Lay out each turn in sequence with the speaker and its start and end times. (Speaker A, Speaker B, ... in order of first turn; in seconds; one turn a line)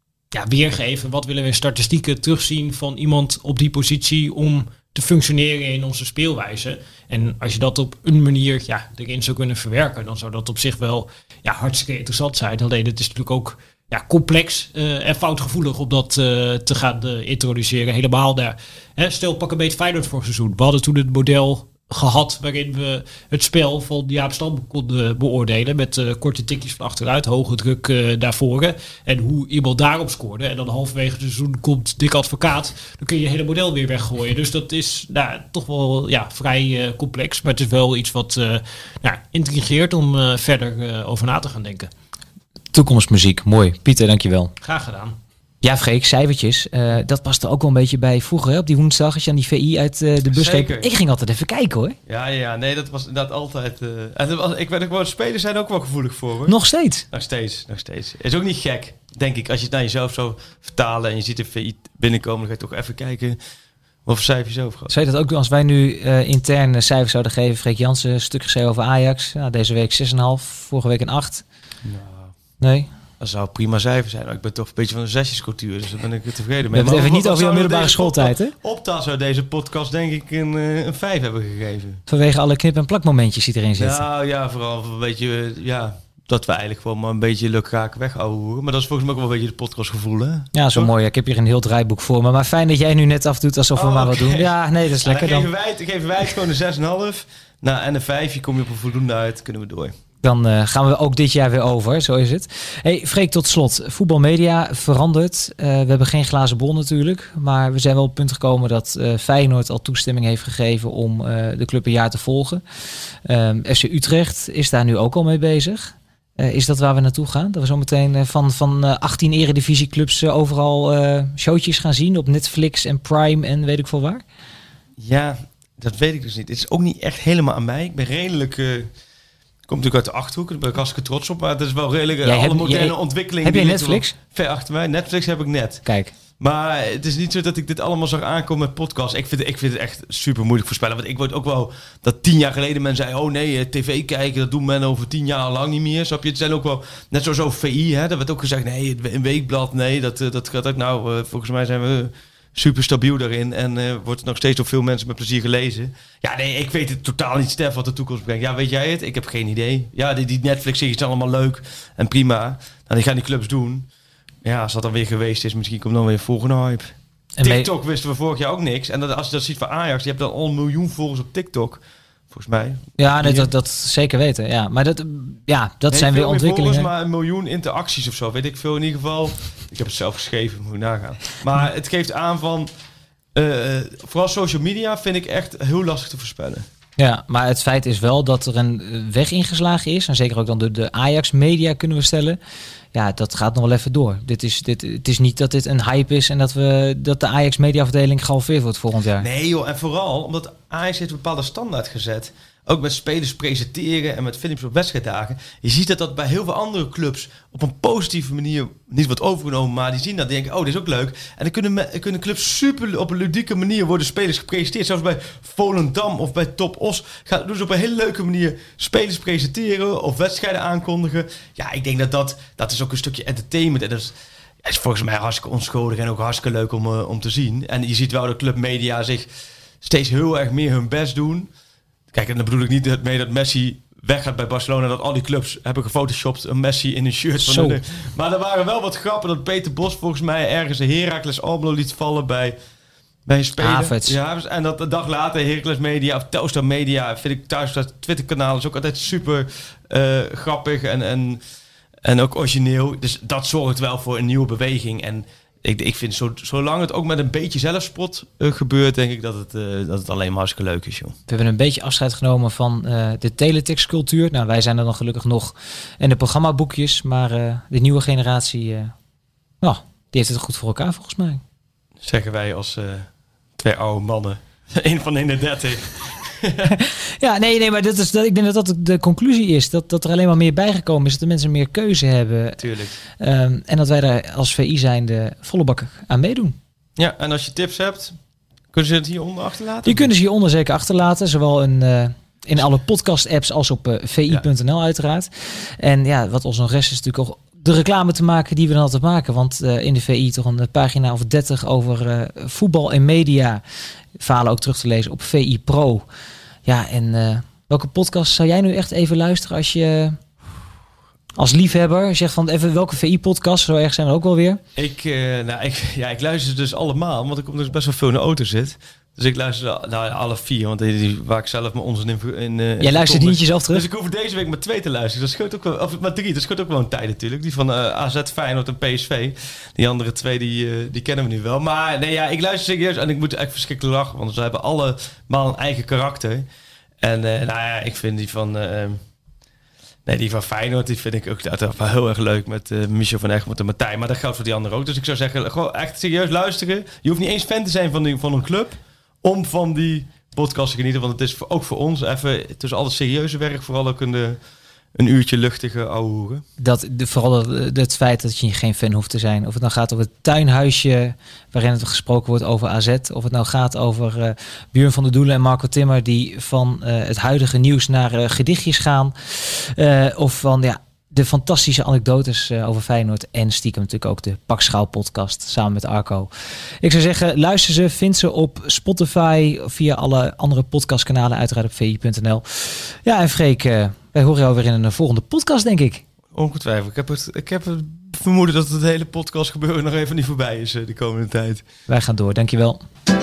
Speaker A: 0.3-41.9
Speaker B: 42.7-44.5
Speaker A: 44.6-45.2
Speaker B: 45.6-52.0
Speaker C: 50.3-50.9
Speaker C: 52.1-56.5
Speaker B: 56.5-57.0
Speaker C: 57.1-63.4
Speaker C: 64.0-64.9
Speaker B: 64.9-71.4
Speaker C: 71.8-72.3
Speaker B: 72.6-72.9
Speaker C: 73.2-82.0
Speaker B: 76.7-78.5
Speaker B: 82.1-84.0
Speaker C: 83.8-90.9
Speaker B: 90.5-95.5
Speaker C: 93.7-94.5
Speaker C: 95.0-99.9
Speaker B: 100.2-112.6
Speaker B: 113.2-124.2
Speaker C: 125.0-128.9
Speaker C: 129.7-135.8
Speaker B: 132.2-134.1
Speaker B: 135.8-136.1
Speaker C: 136.4-163.9
Speaker C: 164.4-173.5
Speaker B: 167.4-167.7
Speaker B: 173.0-176.9
Speaker C: 175.9-182.7
Speaker C: 183.3-186.7
Speaker B: 187.0-192.4
Speaker B: 192.9-199.3
Speaker C: 199.2-229.3
Speaker C: 229.8-231.5
Speaker C: 232.1-242.6
Speaker B: 237.4-237.8
Speaker C: 243.2-251.4
Speaker B: 243.6-244.2
Speaker C: 252.0-261.2
Speaker B: 261.3-268.9
Speaker B: 269.6-271.4
Speaker C: 272.0-276.7
Speaker B: 276.8-282.6
Speaker C: 282.6-282.9
Speaker B: 283.2-286.6
Speaker C: 287.0-288.2
Speaker C: 288.7-290.1
Speaker B: 289.9-303.6
Speaker B: 304.2-306.0
Speaker B: 306.6-310.2
Speaker B: 311.4-314.6
Speaker C: 314.8-336.4
Speaker B: 322.8-323.9
Speaker C: 337.0-339.0
Speaker C: 340.1-354.4
Speaker C: 354.9-356.4
Speaker B: 356.6-376.3
Speaker B: 376.8-386.0
Speaker C: 386.3-391.6
Speaker B: 391.9-392.8